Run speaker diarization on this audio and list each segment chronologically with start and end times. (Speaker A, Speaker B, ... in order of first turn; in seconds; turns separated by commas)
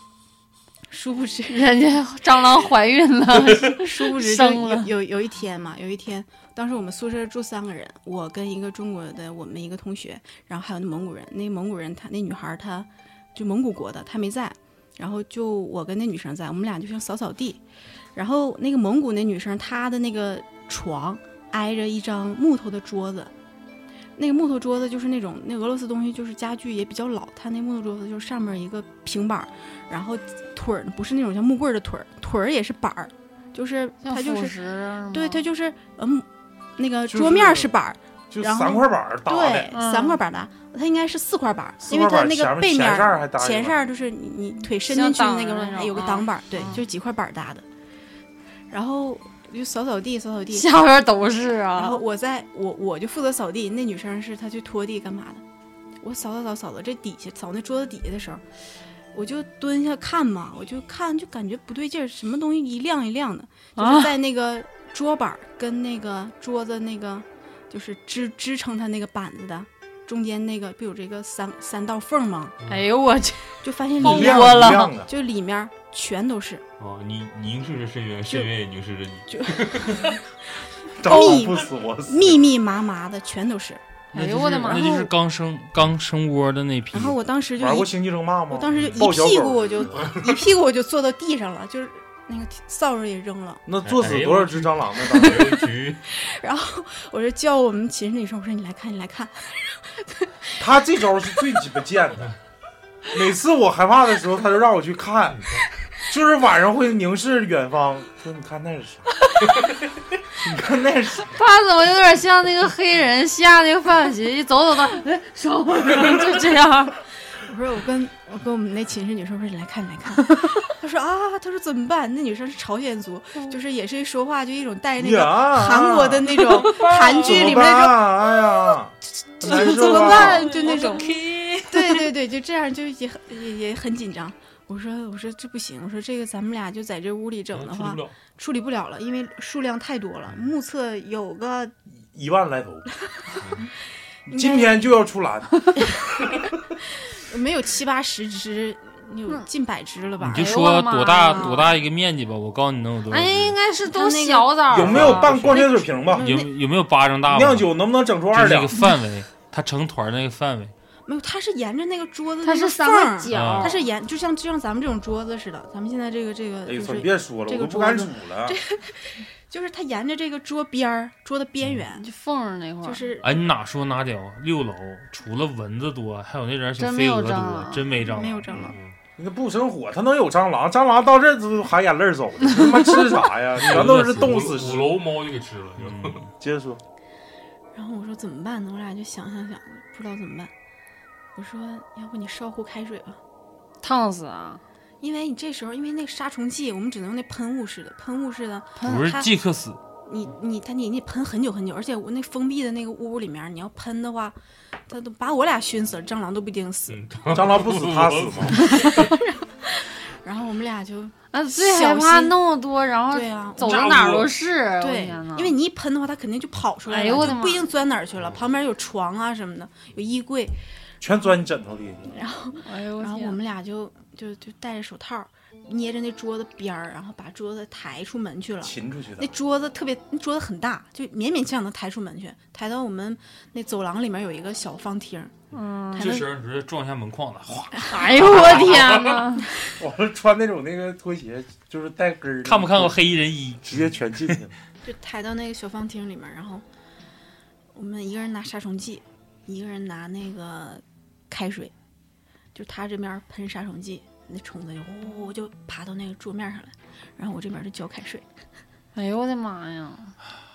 Speaker A: 0.9-1.6, Speaker B: 1.5-4.9, Speaker A: 3.5-17.6, Speaker A: 18.1-23.3, Speaker A: 24.1-34.6, Speaker B: 34.0-35.4, Speaker A: 35.1-36.2, Speaker A: 36.8-47.6, Speaker C: 37.1-37.7, Speaker C: 38.3-39.7, Speaker B: 39.7-40.2, Speaker C: 41.8-43.8, Speaker B: 44.9-46.8, Speaker A: 48.7-50.7, Speaker B: 50.5-52.0, Speaker A: 51.8-55.4, Speaker A: 56.0-58.4, Speaker A: 59.1-72.5, Speaker B: 63.8-64.1, Speaker B: 72.7-74.9, Speaker A: 73.6-76.6, Speaker C: 74.0-75.1, Speaker D: 76.8-80.2, Speaker A: 79.3-80.2, Speaker A: 80.9-83.8, Speaker C: 81.0-82.4, Speaker B: 84.1-85.1, Speaker E: 84.1-87.2, Speaker A: 86.9-87.9, Speaker C: 87.6-90.1, Speaker A: 88.5-93.6, Speaker D: 88.7-89.1, Speaker D: 89.9-90.3, Speaker C: 93.7-95.5, Speaker D: 93.8-96.0, Speaker A: 95.4-100.6, Speaker C: 100.6-102.3, Speaker C: 103.1-105.4, Speaker D: 105.3-105.7, Speaker C: 106.1-109.1, Speaker C: 110.3-111.3, Speaker B: 111.3-117.0, Speaker A: 117.3-128.1, Speaker C: 125.0-130.5, Speaker B: 126.4-127.1, Speaker A: 129.4-141.7, Speaker B: 129.4-132.1, Speaker D: 137.5-138.2, Speaker C: 142.0-142.8, Speaker D: 143.4-143.7, Speaker A: 144.3-144.9, Speaker C: 144.3-145.9, Speaker A: 145.8-146.3, Speaker A: 147.1-150.6, Speaker E: 150.2-153.5, Speaker B: 150.3-151.7, Speaker A: 151.2-151.8, Speaker B: 153.1-155.1, Speaker A: 153.8-156.5, Speaker C: 154.7-156.2, Speaker D: 154.9-155.3, Speaker E: 156.1-157.7, Speaker C: 157.3-158.8, Speaker E: 158.3-160.7, Speaker A: 161.1-172.1, Speaker B: 162.4-163.8, Speaker E: 163.3-163.8, Speaker C: 166.7-168.6, Speaker B: 171.9-173.1, Speaker A: 172.8-173.4, Speaker E: 173.2-178.7, Speaker B: 176.8-177.9, Speaker A: 177.9-178.8, Speaker D: 178.5-178.9, Speaker C: 179.2-185.0, Speaker D: 183.6-186.2, Speaker C: 186.4-186.8, Speaker A: 187.7-190.5, Speaker A: 191.3-193.2, Speaker B: 193.8-194.6, Speaker A: 195.0-199.3, Speaker B: 198.8-199.1, Speaker E: 198.8-199.8, Speaker A: 200.0-204.3, Speaker A: 204.9-207.0, Speaker D: 206.9-209.0, Speaker C: 207.3-208.6, Speaker A: 208.6-212.3, Speaker B: 211.3-215.5, Speaker A: 213.1-214.3, Speaker E: 213.6-214.3, Speaker A: 214.8-220.6, Speaker B: 216.9-217.6, Speaker C: 221.0-222.2, Speaker A: 222.1-235.3, Speaker B: 222.6-223.4, Speaker C: 228.6-229.3, Speaker B: 235.5-236.1, Speaker A: 235.9-236.4, Speaker E: 235.9-239.0, Speaker A: 237.8-238.6, Speaker B: 237.8-239.4, Speaker C: 239.8-243.0, Speaker E: 242.4-244.4, Speaker C: 243.6-244.5, Speaker A: 244.8-246.6, Speaker A: 247.7-251.7, Speaker A: 252.5-258.2, Speaker B: 258.9-260.1